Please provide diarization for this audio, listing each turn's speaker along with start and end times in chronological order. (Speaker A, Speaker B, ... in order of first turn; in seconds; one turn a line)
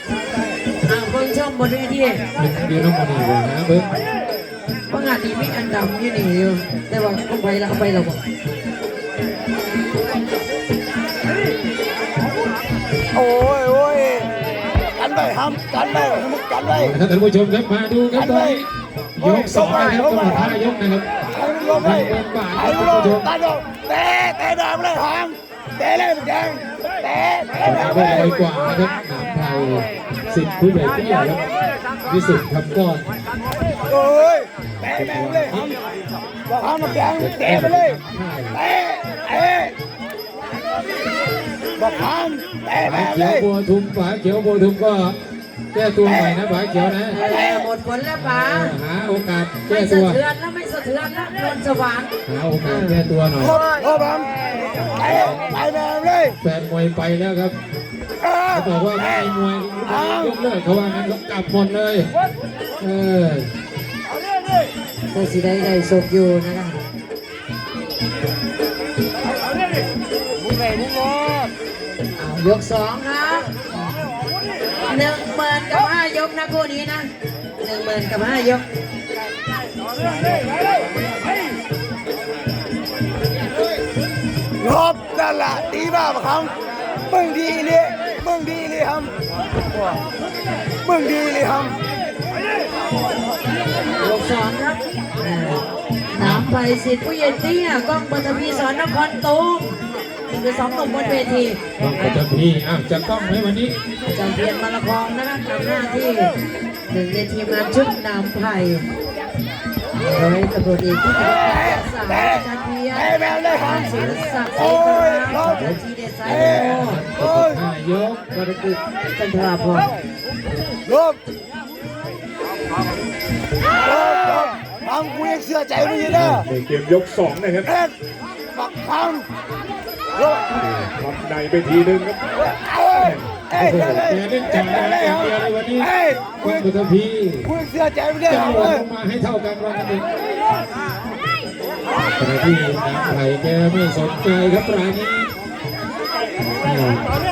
Speaker A: 0.8-2.2
Speaker B: 2.4-3.9
Speaker A: 4.9-8.2
Speaker C: 13.1-16.9
Speaker B: 16.6-21.1
Speaker C: 18.1-18.6
Speaker C: 19.2-20.5
Speaker C: 21.3-28.3
Speaker B: 21.7-23.3
Speaker B: 27.6-31.4
Speaker B: 32.0-33.1
Speaker C: 33.9-35.8
Speaker B: 34.6-35.7
Speaker C: 36.5-38.0
Speaker B: 36.8-38.6
Speaker C: 38.6-39.7
Speaker C: 41.8-43.4
Speaker B: 42.8-45.2
Speaker B: 45.7-47.3
Speaker A: 47.1-48.8
Speaker C: 47.3-47.6
Speaker B: 48.1-50.2
Speaker A: 49.7-52.1
Speaker B: 52.2-53.6
Speaker A: 52.6-53.0
Speaker C: 53.6-54.4
Speaker B: 54.9-55.4
Speaker C: 55.0-56.4
Speaker B: 56.4-57.6
Speaker C: 58.2-58.6
Speaker B: 58.5-62.1
Speaker C: 59.9-60.3
Speaker B: 62.8-63.5
Speaker A: 65.1-66.8
Speaker A: 72.2-73.6
Speaker A: 74.9-78.6
Speaker C: 84.6-89.1
Speaker C: 90.8-91.8
Speaker A: 94.0-102.2
Speaker B: 96.2-96.5
Speaker B: 101.8-103.8
Speaker A: 104.0-106.3
Speaker A: 106.9-108.9
Speaker A: 109.9-117.0
Speaker C: 111.6-112.4
Speaker C: 113.0-113.7
Speaker B: 113.7-114.2
Speaker C: 114.5-115.6
Speaker B: 116.2-118.3
Speaker C: 116.3-117.6
Speaker A: 118.3-119.9
Speaker C: 120.8-121.2
Speaker C: 123.8-126.4
Speaker B: 126.1-126.4
Speaker D: 126.3-127.7
Speaker C: 127.7-127.9
Speaker C: 128.5-129.3
Speaker C: 130.2-130.4
Speaker D: 130.5-132.2
Speaker C: 132.4-136.6
Speaker B: 133.0-137.6
Speaker C: 137.4-138.8
Speaker B: 138.3-140.0
Speaker B: 142.2-145.3
Speaker B: 146.6-147.0